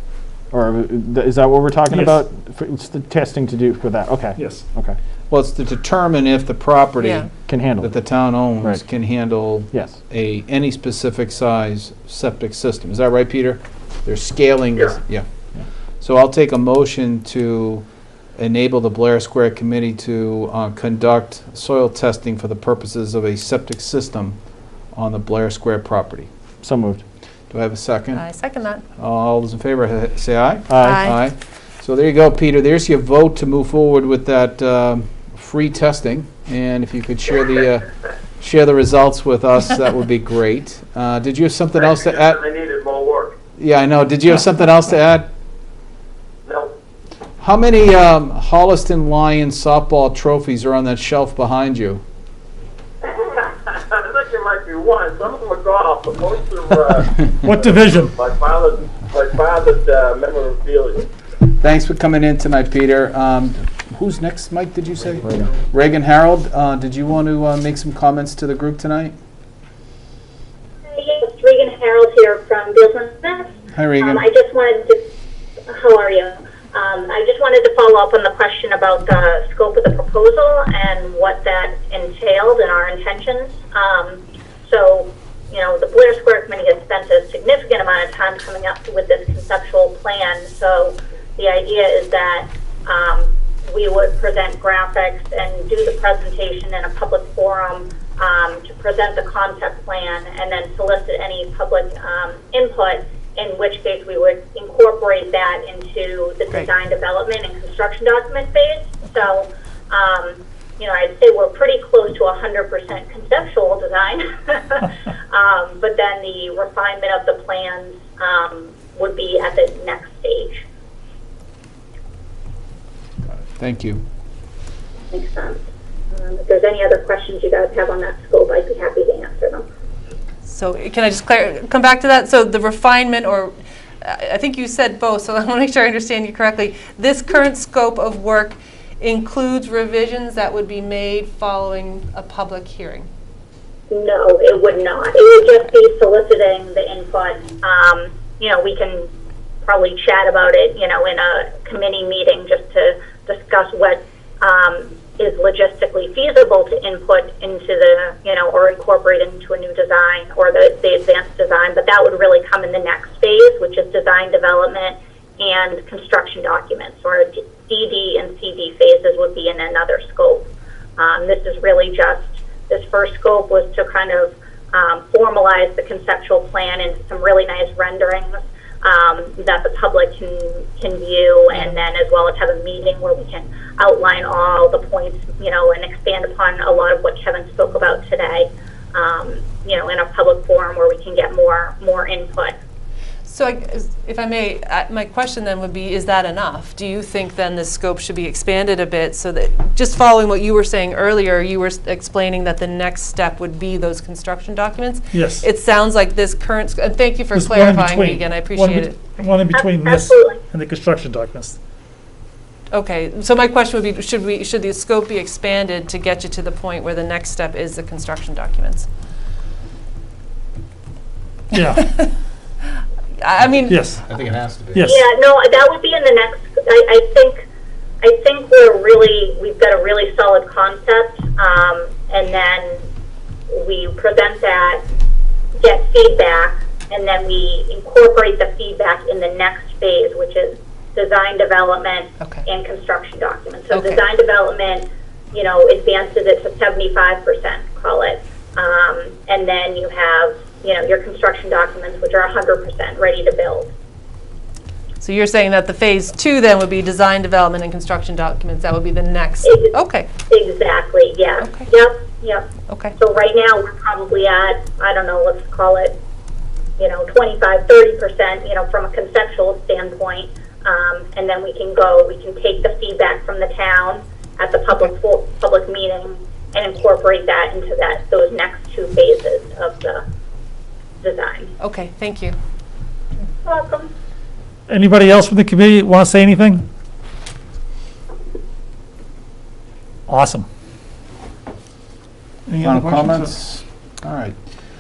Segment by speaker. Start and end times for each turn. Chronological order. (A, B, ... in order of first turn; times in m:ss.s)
0:00.5-0:05.0 A
0:01.9-0:02.3 B
0:04.4-0:04.7 B
0:05.3-0:07.3 C
0:07.0-0:07.3 D
0:07.5-0:07.9 A
0:07.8-0:15.3 C
0:09.7-0:10.0 A
0:16.0-0:17.8 C
0:18.4-0:24.4 C
0:24.9-0:26.3 C
0:26.6-0:27.0 A
0:27.5-0:28.2 C
0:28.1-0:28.8 D
0:29.0-0:42.4 C
0:30.7-0:31.0 A
0:30.8-0:31.2 D
0:41.8-0:43.4 E
0:43.6-0:45.3 C
0:46.5-0:46.8 E
0:47.4-0:52.0 C
0:53.0-1:01.1 E
0:57.4-0:58.1 B
1:01.5-1:09.1 C
1:10.9-1:15.1 F
1:13.7-1:14.2 C
1:15.7-2:00.6 F
2:03.6-2:04.0 C
2:05.1-2:09.7 F
2:10.4-2:23.1 D
2:23.9-2:29.1 F
2:29.6-2:50.5 F
2:51.0-3:12.6 F
3:13.3-3:29.2 D
3:25.1-3:25.4 B
3:27.3-3:31.6 B
3:29.5-3:30.4 F
3:32.7-3:38.9 D
3:41.5-3:41.9 B
3:41.8-3:42.1 D
3:43.2-3:43.8 D
3:43.7-3:44.0 B
3:44.1-3:44.9 C
3:44.7-3:45.0 B
3:44.8-3:47.4 F
3:48.0-3:52.9 F
3:53.5-3:54.8 F
3:55.6-4:13.7 F
4:03.7-4:04.0 D
4:15.0-4:20.1 D
4:19.4-4:19.7 F
4:20.3-4:26.0 F
4:21.4-4:21.7 D
4:22.7-4:23.0 D
4:26.8-4:40.0 F
4:41.0-4:41.5 F
4:41.6-4:42.4 D
4:43.4-4:43.9 F
4:44.7-4:46.7 B
4:50.1-4:50.5 B
4:52.5-4:53.3 B
4:52.6-4:54.4 C